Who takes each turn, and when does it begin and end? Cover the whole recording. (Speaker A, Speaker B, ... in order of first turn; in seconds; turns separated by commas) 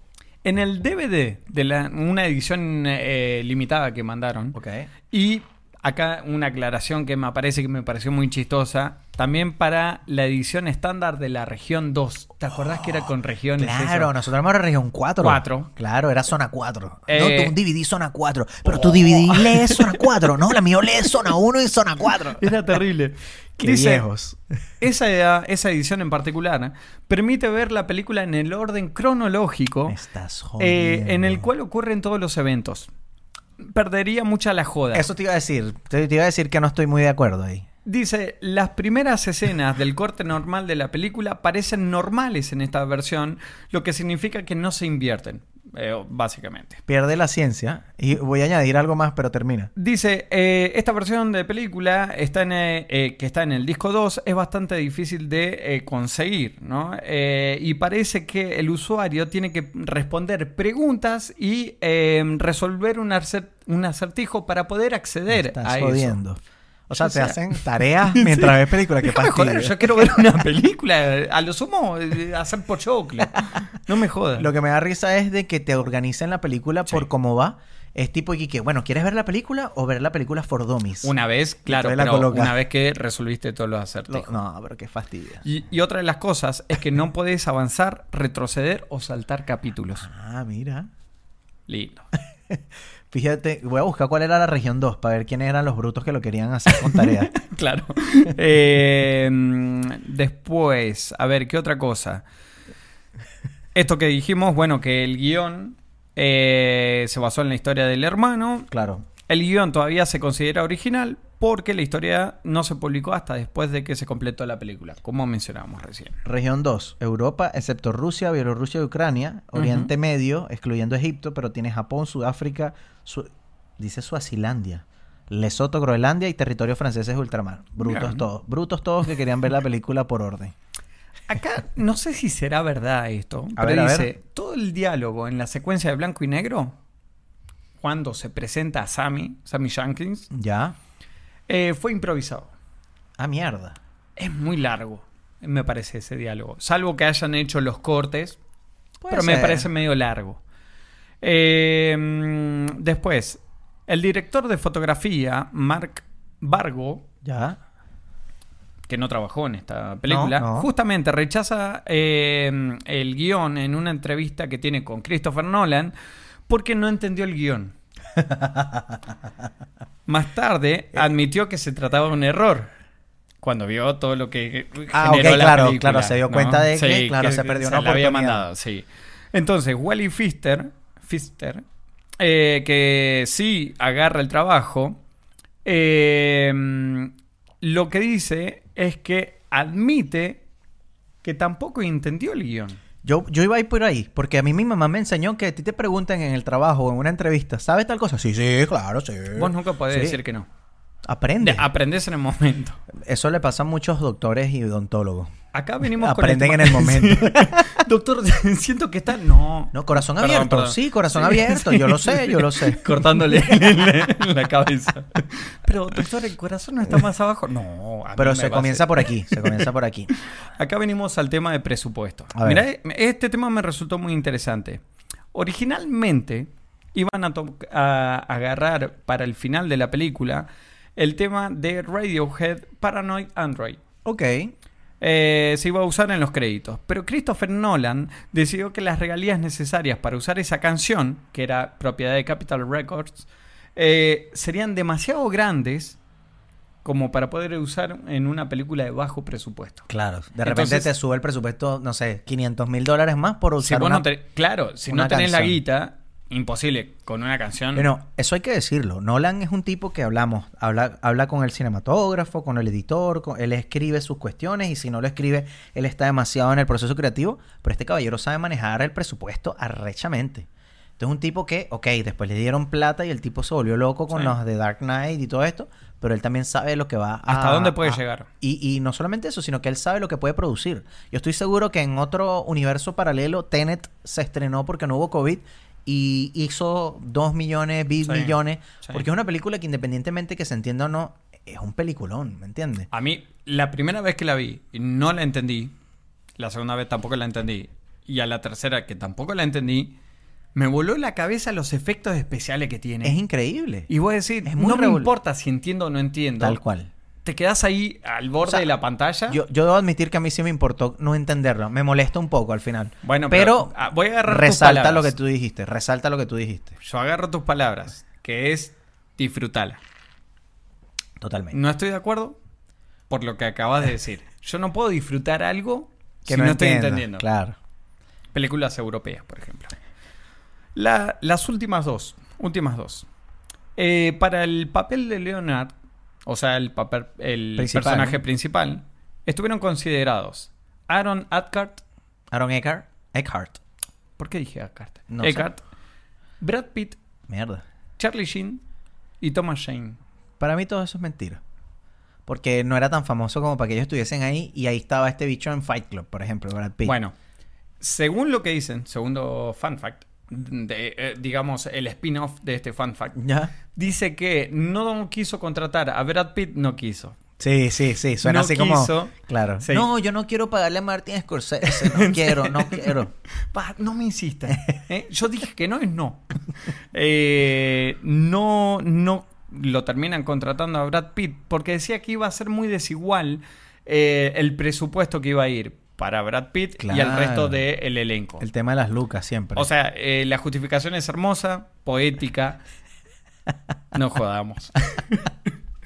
Speaker A: 0.4-4.6, Speaker B: 4.5-4.9, Speaker A: 5.1-14.1, Speaker B: 13.6-22.6, Speaker A: 15.2-15.7, Speaker A: 17.1-17.6, Speaker A: 18.6-20.0, Speaker A: 22.4-24.0, Speaker B: 23.6-24.4, Speaker A: 24.8-30.0, Speaker B: 29.9-31.5, Speaker A: 30.6-32.9, Speaker A: 33.6-35.1, Speaker B: 34.9-37.6, Speaker A: 37.8-46.8, Speaker B: 46.9-49.7, Speaker A: 49.8-66.2, Speaker B: 65.3-70.2, Speaker A: 66.9-74.5, Speaker B: 74.4-81.1, Speaker A: 81.0-84.4, Speaker B: 81.7-82.5, Speaker B: 84.1-85.4, Speaker A: 85.4-90.1, Speaker B: 90.0-90.9, Speaker A: 91.7-92.0, Speaker B: 92.5-97.3, Speaker A: 96.8-102.2, Speaker A: 103.7-108.7, Speaker B: 108.7-109.0, Speaker A: 109.3-116.2, Speaker B: 116.2-130.5, Speaker A: 119.5-119.9, Speaker A: 127.8-128.2, Speaker A: 131.3-136.8, Speaker B: 133.6-134.1, Speaker A: 137.8-140.3, Speaker B: 140.3-140.8, Speaker A: 141.5-142.5, Speaker B: 143.2-143.8, Speaker A: 144.2-148.4, Speaker B: 149.0-149.7, Speaker A: 149.1-150.4, Speaker A: 151.2-157.0, Speaker B: 157.2-157.6, Speaker A: 158.9-165.9, Speaker B: 160.1-160.7, Speaker A: 166.5-167.7, Speaker B: 168.2-169.0, Speaker A: 170.1-172.7, Speaker A: 173.4-181.6, Speaker B: 174.9-178.4, Speaker A: 182.2-185.0, Speaker A: 185.6-190.4, Speaker A: 191.2-192.8, Speaker B: 193.0-200.2, Speaker A: 199.3-200.5, Speaker B: 201.0-201.7, Speaker A: 201.4-202.8, Speaker B: 202.9-207.8, Speaker A: 205.5-233.8, Speaker B: 209.7-213.7, Speaker B: 218.2-220.1, Speaker B: 222.3-222.6, Speaker B: 234.0-234.5, Speaker A: 235.0-246.0, Speaker A: 246.8-249.9, Speaker B: 249.9-254.1, Speaker A: 250.4-250.9, Speaker A: 253.6-257.9, Speaker B: 254.8-255.6, Speaker B: 257.7-292.9, Speaker A: 277.3-278.3, Speaker A: 288.0-289.1, Speaker A: 292.9-295.7, Speaker A: 296.4-299.9, Speaker A: 300.5-303.2, Speaker B: 303.0-303.9, Speaker A: 303.9-306.6, Speaker B: 304.4-305.1, Speaker B: 306.4-306.9, Speaker A: 307.2-309.4, Speaker B: 309.3-316.8, Speaker A: 313.0-315.1, Speaker A: 316.8-319.8, Speaker B: 321.2-321.6, Speaker A: 321.5-322.4, Speaker A: 323.1-327.2, Speaker B: 326.2-327.6, Speaker A: 328.3-329.7, Speaker A: 330.7-333.1, Speaker A: 333.8-335.7, Speaker A: 336.2-341.8, Speaker B: 337.6-338.2, Speaker B: 342.3-343.6, Speaker A: 344.2-345.6, Speaker B: 345.1-345.5, Speaker A: 346.4-347.0, Speaker B: 347.3-347.6, Speaker A: 348.0-348.6, Speaker A: 349.2-350.0, Speaker B: 350.4-351.4, Speaker B: 352.2-356.9, Speaker A: 356.8-357.1, Speaker A: 357.8-367.1, Speaker B: 363.1-363.5, Speaker B: 367.4-373.1, Speaker A: 368.2-369.9, Speaker A: 371.6-373.0, Speaker A: 373.5-388.4, Speaker B: 386.8-387.6, Speaker B: 388.4-389.7, Speaker A: 389.6-392.6, Speaker A: 393.9-395.3